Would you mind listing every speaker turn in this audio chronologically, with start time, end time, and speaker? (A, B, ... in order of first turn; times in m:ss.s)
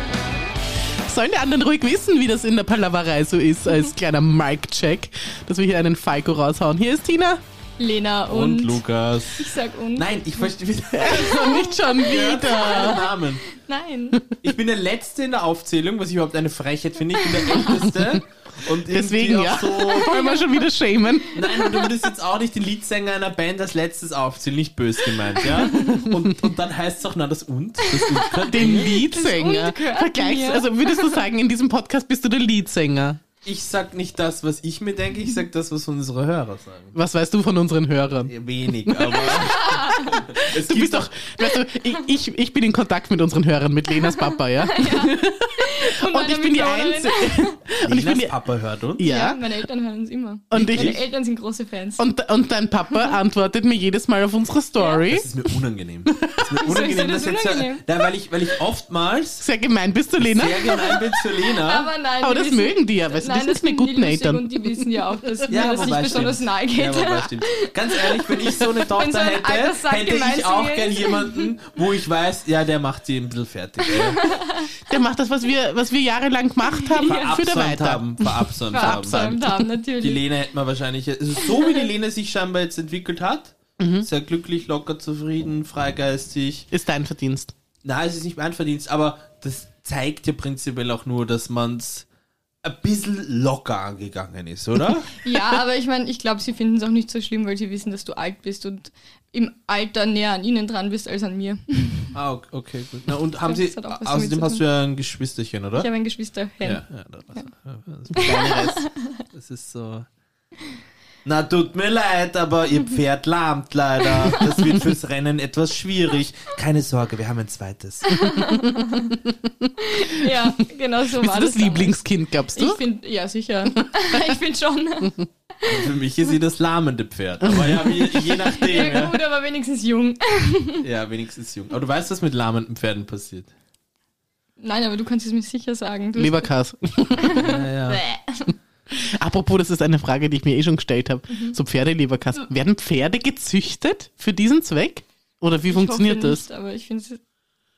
0:01.0-0:07.4 A
0:07.8-0:08.8 B
0:08.3-0:13.4 C
0:09.4-0:10.5 B
0:10.9-0:13.1 A
0:11.1-0:14.2 B
0:14.4-0:20.3 C
0:17.3-0:17.7 B
0:17.6-0:21.9 A
0:20.0-0:20.6 B
0:21.3-0:29.1 C
0:25.5-0:26.0 B
0:25.8-0:26.3 A
0:27.8-0:31.3 B
0:28.4-0:33.2 A
0:33.4-0:37.0 C
0:37.0-0:39.6 A
0:38.3-0:41.1 C
0:39.3-0:40.2 B
0:40.3-0:48.3 A
0:44.0-0:47.6 B
0:47.8-0:49.0 C
0:49.0-0:49.4 A
0:49.0-0:52.0 B
0:50.5-0:51.0 A
0:50.5-0:51.0 C
0:52.0-0:55.5 A
0:55.1-0:59.4 C
0:56.1-0:56.5 A
0:56.6-0:57.8 B
0:59.4-1:01.0 A
1:00.2-1:01.9 C
1:01.6-1:11.5 B
1:02.2-1:05.0 A
1:05.5-1:14.3 C
1:13.9-1:14.9 B
1:14.8-1:19.5 A
1:16.8-1:17.4 B
1:17.1-1:19.5 C
1:18.7-1:20.2 B
1:20.0-1:26.7 C
1:21.4-1:21.8 B
1:23.8-1:24.1 A
1:26.7-1:27.5 A
1:27.8-1:32.1 C
1:32.6-1:35.2 C
1:35.2-1:42.2 B
1:42.1-1:45.9 C
1:43.4-1:44.6 B
1:45.8-1:46.8 B
1:46.6-1:48.4 C
1:48.1-1:49.2 B
1:48.2-1:48.8 A
1:49.3-1:50.1 C
1:51.2-1:58.1 C
1:54.3-1:54.8 B
1:58.1-1:59.2 B
1:58.2-2:00.6 A
1:59.8-2:02.0 B
2:01.1-2:02.8 A
2:02.6-2:05.9 B
2:05.6-2:09.2 C
2:07.4-2:08.6 A
2:08.6-2:10.8 B
2:10.8-2:13.5 C
2:14.6-2:16.5 B
2:16.2-2:17.5 A
2:17.2-2:18.5 B
2:17.3-2:18.0 C
2:18.9-2:26.4 A
2:25.7-2:27.2 B